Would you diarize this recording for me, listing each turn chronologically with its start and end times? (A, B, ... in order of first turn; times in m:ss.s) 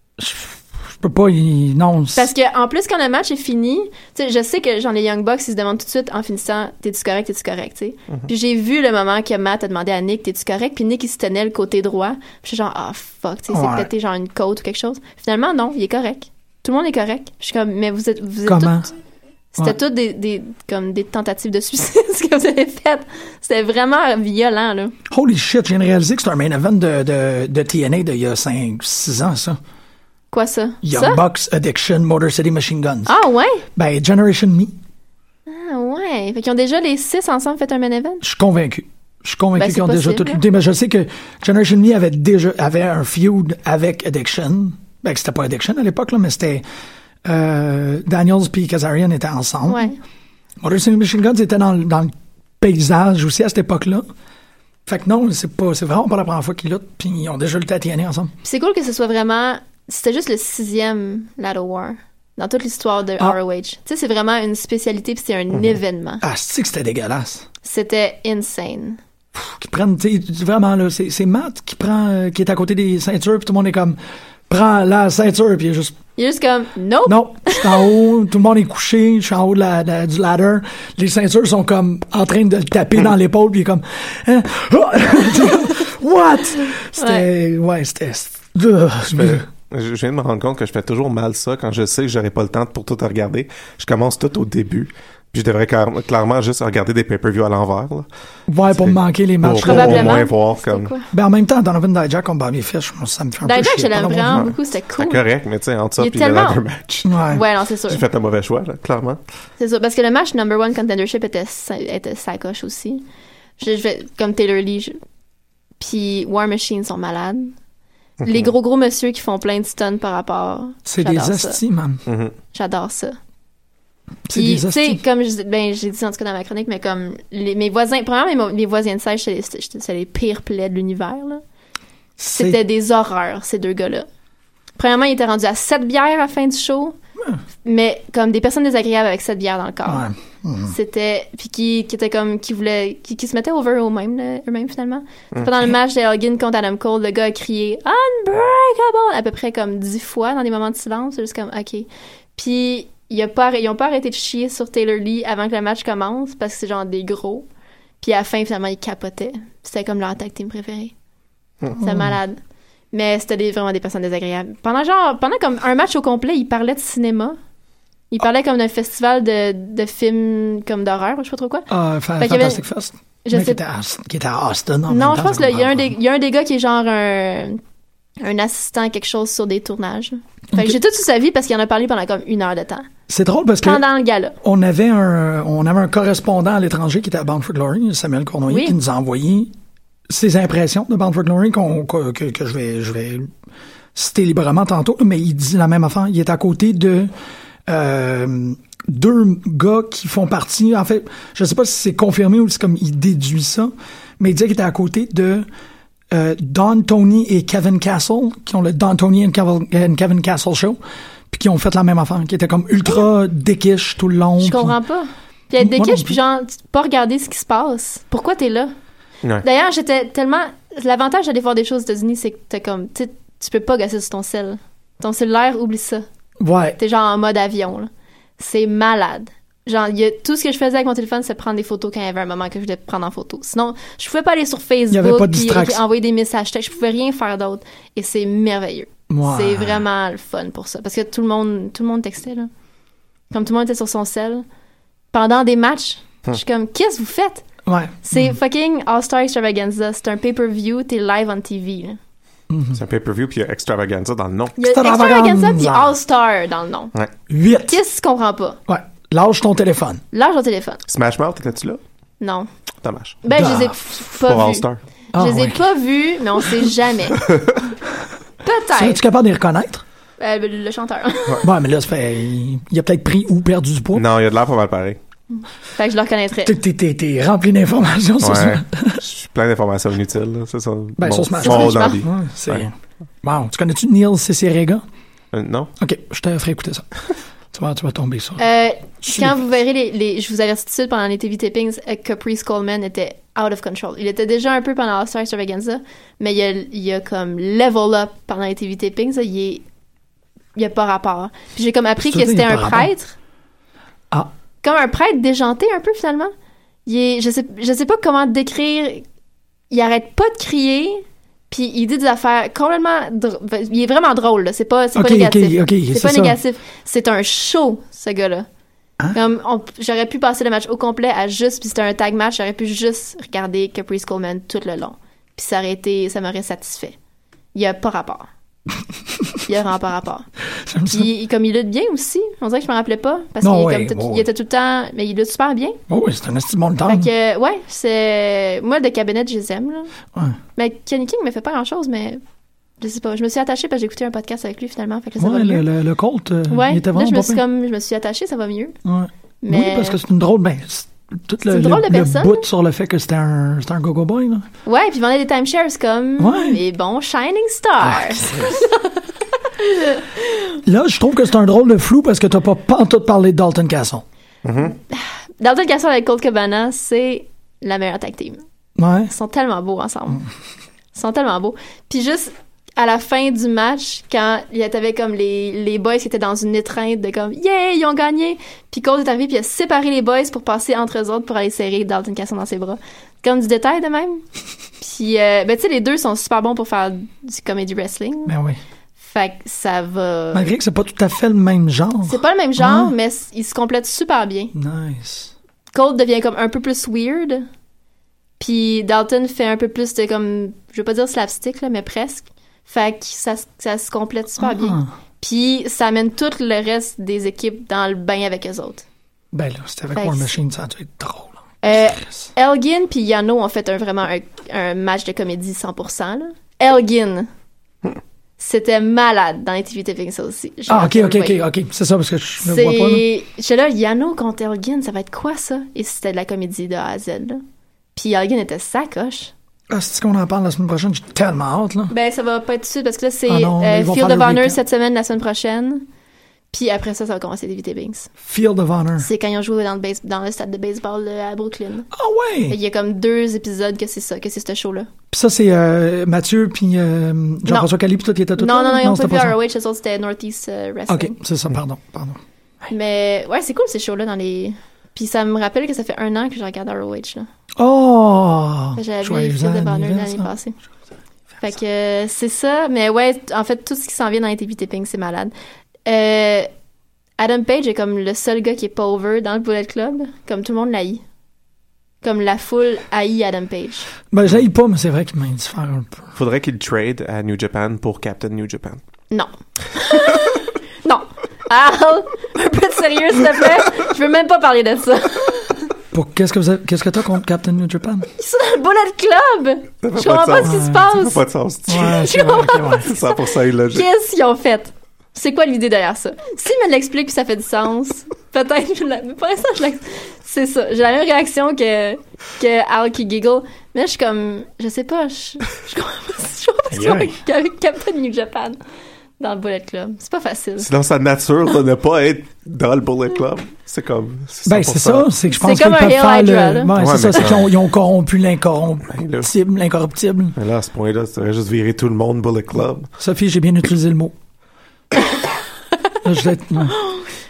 0:00.2-0:02.3 A
0:02.2-0:18.9 B
0:13.5-0:13.9 A
0:18.5-0:18.9 A
0:19.5-0:25.0 B
0:25.1-0:29.6 A
0:30.3-0:31.2 B
0:30.8-0:33.1 A
0:33.1-0:33.6 B
0:33.8-0:34.8 A
0:35.5-0:38.2 B
0:38.2-0:46.6 A
0:39.6-0:40.4 B
0:47.2-0:49.9 A
0:49.7-0:50.0 B
0:50.6-0:54.1 A
0:54.9-0:58.3 A
0:58.4-1:06.2 B
1:06.2-1:07.5 A
1:07.6-1:09.0 B
1:09.4-1:16.0 A
1:16.2-1:18.0 B
1:17.1-1:29.5 A
1:26.8-1:27.3 B
1:29.1-1:38.1 C
1:38.5-1:40.2 A
1:38.7-1:40.9 C
1:39.6-1:41.1 B
1:41.1-1:44.5 A
1:43.4-1:45.2 B
1:44.3-1:47.2 C
1:46.0-1:46.6 B
1:47.0-1:47.4 A
1:47.3-1:48.0 B
1:47.9-1:49.2 C
1:49.6-1:53.0 B
1:53.6-1:55.0 B
1:55.8-1:57.6 B
1:58.2-1:58.5 C
1:58.2-2:01.6 B
2:00.9-2:02.0 A
2:02.1-2:02.3 C
2:02.5-2:03.2 B
2:04.3-2:05.0 A
2:04.3-2:11.4 B
2:12.2-2:12.6 A
2:12.3-2:14.1 B
2:14.8-2:17.0 B
2:17.6-2:20.1 B
2:19.9-2:20.8 A
2:20.7-2:37.5 B
2:38.0-2:40.9 B
2:41.8-2:42.1 A
2:41.8-2:42.4 B
2:42.9-2:47.4 B
2:48.1-2:52.6 B
2:51.7-2:55.9 A
2:53.2-2:53.6 B
2:54.9-2:57.6 B
2:58.2-3:02.9 B
3:03.1-3:03.9 A
3:03.6-3:04.4 B
3:04.4-3:09.5 A
3:08.5-3:08.8 B
3:10.1-3:13.3 A
3:14.0-3:17.1 A
3:17.7-3:25.5 A
3:26.1-3:30.8 A
3:31.3-3:34.8 A
3:34.4-3:38.7 B
3:35.6-3:36.2 A
3:39.4-3:46.0 B
3:46.4-3:46.8 A
3:46.8-4:02.5 B
3:54.9-3:55.8 A
3:59.1-3:59.8 A
4:03.3-4:04.4 B
4:05.1-4:07.4 B
4:07.7-4:08.3 A
4:08.0-4:12.0 B
4:12.5-4:12.8 A
4:12.7-4:14.6 C
4:14.6-4:16.9 B
4:14.6-4:15.9 A
4:17.3-4:17.8 A
4:17.7-4:18.6 B
4:18.7-4:20.0 A
4:20.1-4:20.8 B
4:20.9-4:21.8 C
4:22.2-4:22.5 B
4:22.8-4:23.2 C
4:23.2-4:27.3 B
4:23.3-4:23.8 A
4:24.1-4:24.8 C
4:25.1-4:25.7 A
4:27.3-4:27.6 C
4:28.4-4:29.0 B
4:28.7-4:29.8 A
4:30.2-4:31.4 B
4:31.4-4:34.0 A
4:34.0-4:35.0 C
4:35.3-4:36.6 B
4:36.4-4:39.0 A
4:38.2-4:42.6 C
4:41.0-4:44.8 A
4:41.4-4:42.0 B
4:45.3-4:45.7 C
4:45.8-4:46.9 A
4:47.5-4:48.4 A
4:48.4-4:59.6 B
4:49.0-4:49.3 A
5:00.6-5:03.2 B
5:02.0-5:02.9 A
5:04.6-5:06.3 B
5:06.9-5:09.0 B
5:09.7-5:18.5 B
5:15.0-5:16.4 A
5:19.1-5:27.0 B
5:27.5-5:28.3 B
5:29.4-5:30.3 B
5:30.6-5:31.1 A
5:30.9-5:35.8 B
5:33.4-5:34.3 A
5:35.9-5:37.1 A
5:36.9-5:39.9 B
5:40.6-5:42.2 B
5:42.8-5:45.6 B
5:45.2-5:47.4 A
5:46.5-5:48.8 B
5:48.8-5:54.5 A
5:49.4-5:50.0 B
5:51.4-5:52.4 B
5:54.6-5:59.0 B
5:56.2-5:56.6 A
5:57.8-5:58.5 A
5:59.6-6:00.0 B
6:00.6-6:04.0 A
6:04.4-6:04.8 C
6:04.7-6:08.4 B
6:08.8-6:09.1 A
6:09.1-6:10.2 B
6:10.9-6:24.2 B
6:24.8-6:28.3 B
6:28.3-6:28.6 A
6:29.0-6:30.5 B
6:30.3-6:32.9 A
6:32.1-6:34.5 B
6:34.5-6:35.3 A
6:35.7-6:37.5 B
6:38.4-6:48.8 B
6:44.4-6:44.9 A
6:49.3-6:52.2 A
6:49.9-6:50.3 B
6:51.6-6:57.3 B
6:58.4-7:01.4 B
7:00.7-7:03.1 A
7:02.4-7:07.4 B
7:08.0-7:09.3 B
7:09.7-7:11.9 A
7:11.9-7:15.9 B
7:13.3-7:14.6 A
7:16.5-7:18.1 B
7:18.2-7:19.1 A
7:19.0-7:21.9 B
7:21.9-7:22.6 A
7:22.5-7:24.9 B
7:25.1-7:29.4 A
7:28.4-7:31.1 B
7:30.9-7:32.2 A
7:32.7-7:37.3 B
7:37.6-7:40.3 A
7:38.8-7:40.6 B
7:41.4-7:45.3 B
7:45.9-7:46.5 B
7:47.2-7:51.0 B
7:52.0-7:53.9 B
7:54.1-7:56.1 A
7:56.2-7:58.8 C
7:59.1-8:05.7 B
8:05.9-8:08.1 A
8:08.2-8:11.2 B
8:09.8-8:13.9 C
8:10.4-8:10.8 A
8:11.7-8:12.9 A
8:11.9-8:28.6 B
8:26.7-8:27.2 A
8:29.2-8:30.7 B
8:30.6-8:35.1 C
8:34.5-8:40.4 A
8:35.3-8:36.8 B
8:36.7-8:37.5 C
8:38.9-8:39.3 C
8:40.4-8:42.9 C
8:43.0-8:44.1 A
8:46.0-8:46.7 A
8:46.6-8:47.1 B